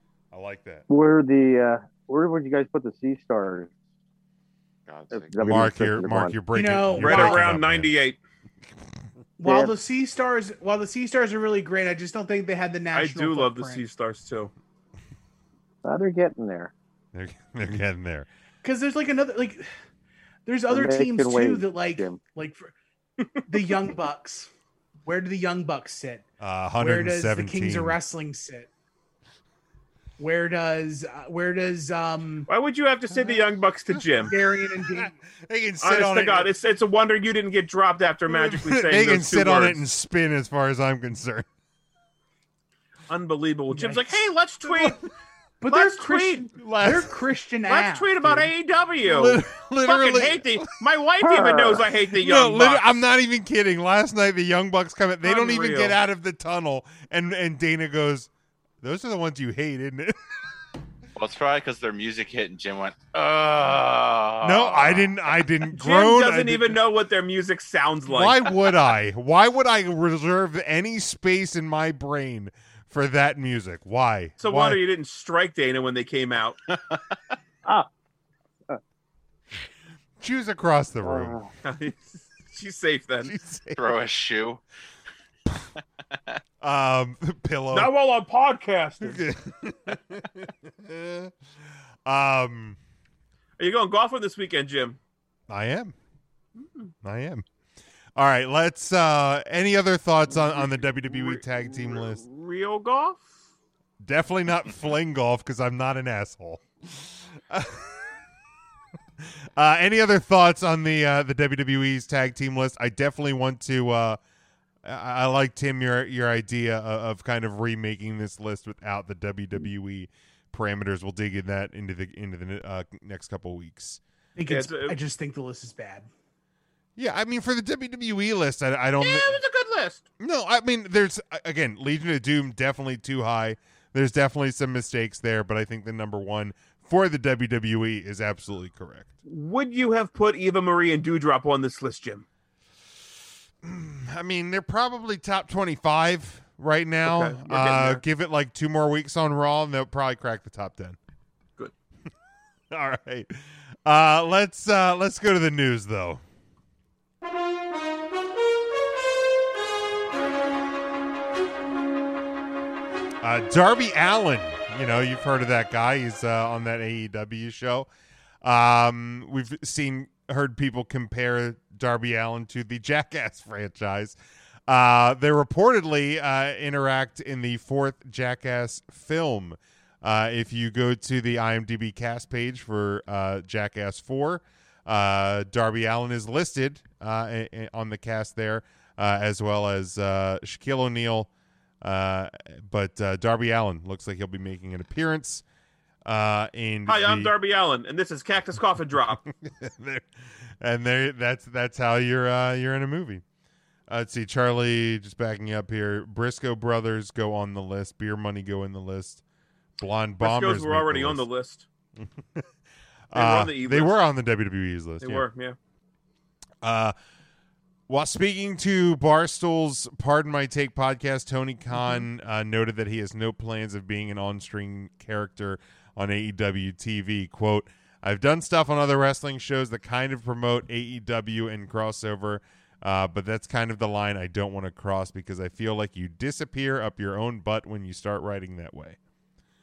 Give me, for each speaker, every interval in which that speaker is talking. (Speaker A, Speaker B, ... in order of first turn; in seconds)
Speaker A: 0.3-0.8, 5.4-7.9, 17.1-18.3, 26.4-28.0, 33.9-36.5, 38.3-41.5, 46.6-47.1, 49.0-50.6, 52.1-58.3, 58.8-60.1, 64.4-66.8, 68.1-74.8, 80.2-81.3, 83.2-83.8, 86.6-87.9, 89.0-91.3, 92.0-92.8, 95.5-95.9, 97.0-97.5, 98.2-102.2, 104.0-107.9, 109.5-114.2, 114.8-124.0, 127.0-129.4, 130.2-139.1, 143.6-151.0, 152.7-156.2, 163.2-167.9, 168.4-174.2, 174.7-191.3, 191.8-195.4, 196.0-197.3, 199.4-200.1, 200.6-203.2, 203.9-209.2, 209.8-211.2, 212.0-212.4, 213.1-215.2, 216.6-216.9, 217.9-239.0
Speaker B: 0.9-3.7, 5.1-6.3, 9.4-9.7, 15.8-16.7, 20.7-22.2, 51.2-51.8, 81.0-81.5
Speaker C: 4.9-5.7, 61.1-65.4, 83.8-84.6
Speaker D: 6.5-7.5, 9.4-13.8, 18.6-19.6, 20.4-22.7, 23.5-24.5, 25.0-26.3, 26.8-28.7, 30.2-32.5, 34.2-35.1, 43.7-44.1, 45.6-48.4, 124.3-126.1
Speaker E: 7.0-8.2, 12.9-14.5, 32.5-34.3, 35.8-39.8, 43.1-45.0, 45.7-46.5, 47.7-53.0, 55.2-56.0, 65.7-68.4, 74.4-76.6, 81.6-83.3, 87.7-89.2, 93.6-95.0, 96.6-96.9, 100.3-103.3, 124.5-125.0, 129.0-130.0, 139.2-142.2, 147.0-148.0, 196.8-199.2, 210.2-211.6, 213.1-214.0, 215.0-215.6, 221.8-222.0